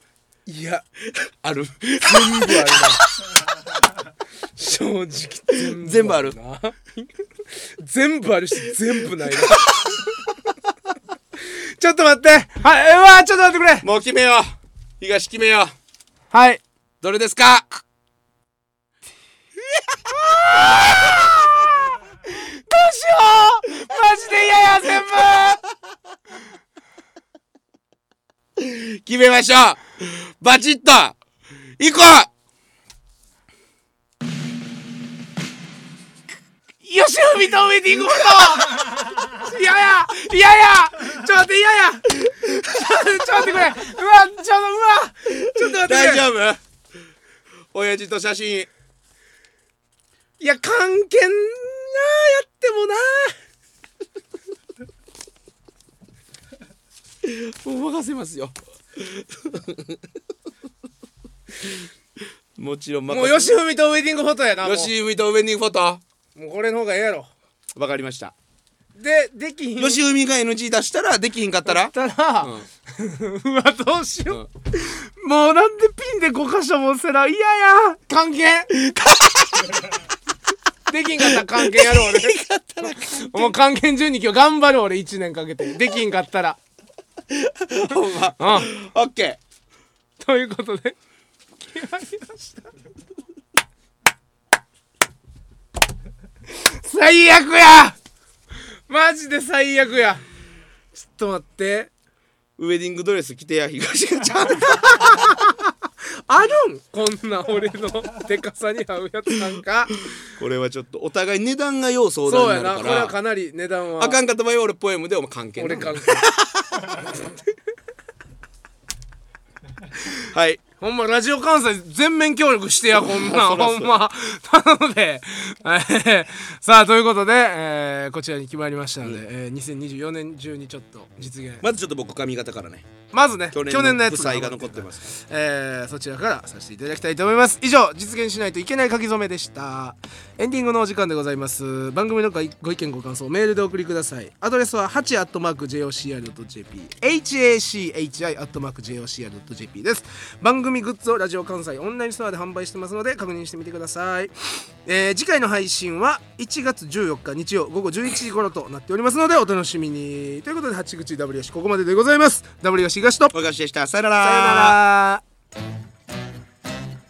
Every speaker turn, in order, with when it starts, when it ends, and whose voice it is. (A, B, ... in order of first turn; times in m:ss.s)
0:00.5-0:00.8 A
0:01.1-0:03.0 B
0:02.0-0:03.0 A
0:04.6-0:10.3 A
0:05.5-0:06.4 B
0:11.4-0:13.9 A
0:13.8-0:15.7 B
0:16.3-0:16.6 A
0:17.0-0:17.8 B
0:20.1-0:25.6 A
0:20.4-0:21.3 B
0:28.6-0:31.2 B
0:31.8-0:32.3 B
0:36.8-0:46.2 A
0:45.4-0:46.6 B
0:47.7-0:48.7 B
0:50.4-0:53.4 A
0:57.2-1:00.0 B
1:01.6-1:01.9 B
1:02.6-1:03.6 B
1:03.1-1:04.9 A
1:04.6-1:06.0 B
1:06.3-1:07.3 A
1:07.7-1:08.3 B
1:08.9-1:10.0 A
1:09.8-1:12.7 B
1:11.7-1:18.8 A
1:18.8-1:19.7 B
1:20.9-1:26.6 A
1:21.2-1:23.5 B
1:27.3-1:29.4 B
1:28.4-1:28.7 A
1:30.2-1:31.0 A
1:31.7-1:32.6 A
1:36.5-1:38.0 A
1:38.9-1:40.2 A
1:40.9-1:41.9 A
1:42.6-1:45.4 B
1:44.8-1:45.6 A
1:46.3-1:50.0 A
1:50.2-1:53.2 B
1:52.2-1:54.2 A
1:54.0-1:57.1 B
1:55.6-1:56.3 A
1:56.8-1:57.3 A
2:00.1-2:00.6 B
2:00.8-2:11.6 A
2:02.9-2:04.0 B
2:11.6-2:12.9 B
2:13.1-2:34.3 A
2:13.5-2:15.1 B
2:34.8-2:43.3 A
2:43.3-2:44.8 B
2:44.2-2:45.2 A